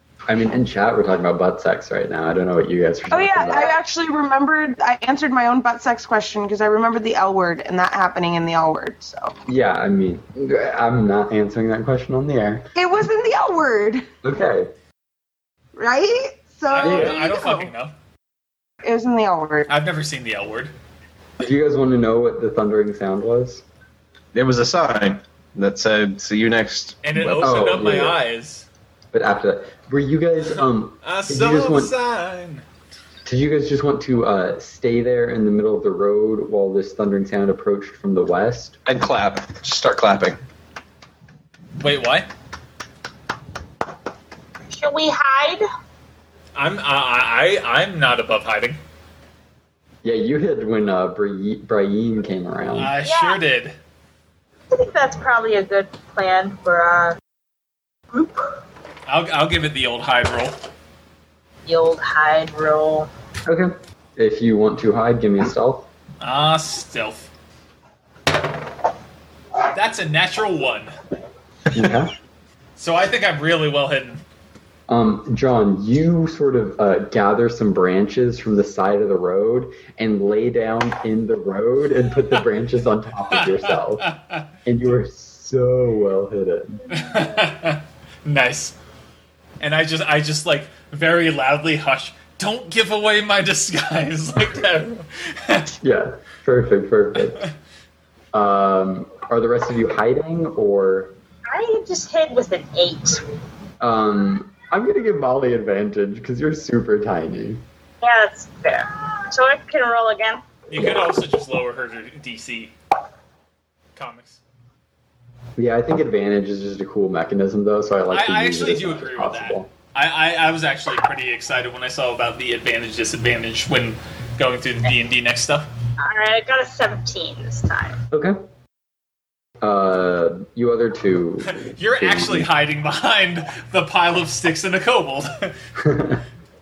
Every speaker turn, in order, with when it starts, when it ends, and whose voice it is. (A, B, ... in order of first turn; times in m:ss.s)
0:00.3-0:03.7 A
0:03.1-0:09.3 B
0:09.4-0:12.7 A
0:12.7-0:14.1 B
0:14.2-0:14.7 A
0:15.7-0:17.7 B
0:16.7-0:17.9 C
0:16.8-0:17.2 A
0:18.8-0:19.7 B
0:19.7-0:20.7 C
0:21.4-0:23.6 A
0:24.3-0:27.5 D
0:27.0-0:28.7 C
0:27.4-0:28.2 A
0:29.1-0:31.9 A
0:31.0-0:32.6 C
0:33.2-0:38.8 A
0:38.8-0:40.4 D
0:41.8-0:42.3 C
0:44.7-0:45.6 E
0:46.6-0:48.8 C
0:50.0-0:52.9 A
0:52.8-0:53.8 C
0:53.0-0:53.4 E
0:54.7-0:57.2 E
0:58.1-0:58.4 E
0:59.1-1:00.6 C
1:01.6-1:03.1 E
1:03.4-1:05.9 A
1:06.2-1:07.3 C
1:09.7-1:10.9 C
1:11.7-1:12.1 A
1:12.8-1:14.2 C
1:14.9-1:24.1 A
1:23.3-1:24.5 C
1:24.6-1:26.8 A
1:26.9-1:28.7 C
1:29.6-1:35.7 C
1:35.8-1:37.4 A
1:38.3-1:41.1 A
1:41.5-1:43.2 E
1:43.8-1:47.6 A
1:48.0-1:50.5 E
1:50.7-1:51.1 A
1:50.7-1:52.7 C
1:54.0-1:54.4 C
1:55.6-1:59.7 A
1:58.1-2:05.7 C
2:06.0-2:08.0 E
2:08.1-2:08.4 A
2:09.6-2:12.5 A
2:11.4-2:15.5 C
2:15.8-2:16.2 A